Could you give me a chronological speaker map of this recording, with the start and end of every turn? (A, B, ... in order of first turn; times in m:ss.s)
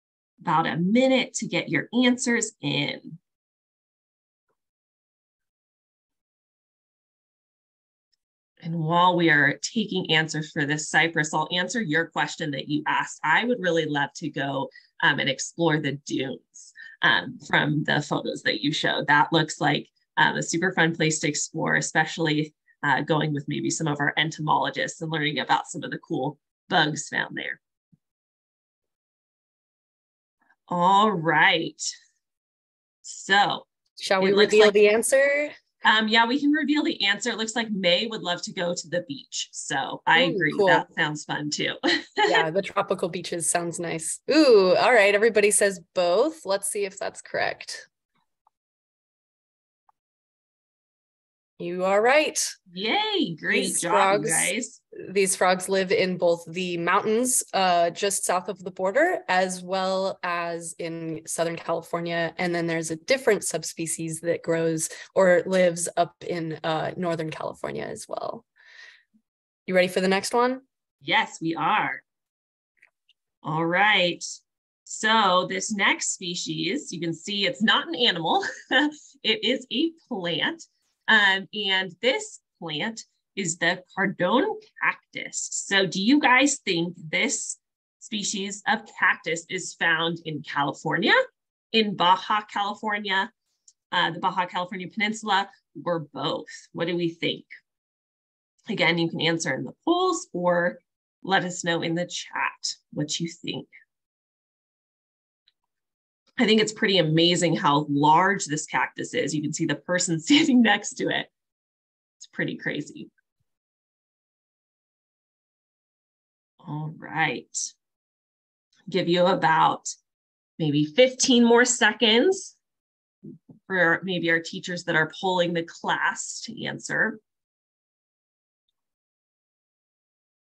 0:00.4-0:03.2 A
0:08.6-0:27.6 A
0:30.7-0:31.9 A
0:33.0-0:33.7 A
0:34.0-0:35.5 B
0:34.2-0:34.7 A
0:35.8-0:42.4 A
0:40.2-0:40.8 B
0:42.2-0:47.9 B
0:51.6-0:52.5 B
0:52.7-0:54.8 A
0:53.5-1:08.4 B
1:09.7-1:10.6 B
1:11.0-1:12.0 A
1:13.4-1:14.2 A
1:14.9-1:31.2 A
1:31.7-1:33.3 A
1:33.9-1:37.5 A
1:38.7-1:43.7 A
1:46.4-1:51.3 A
1:52.2-1:53.1 A
1:56.6-1:57.7 A
1:58.9-1:59.9 A
2:00.6-2:02.6 A
2:03.7-2:07.2 A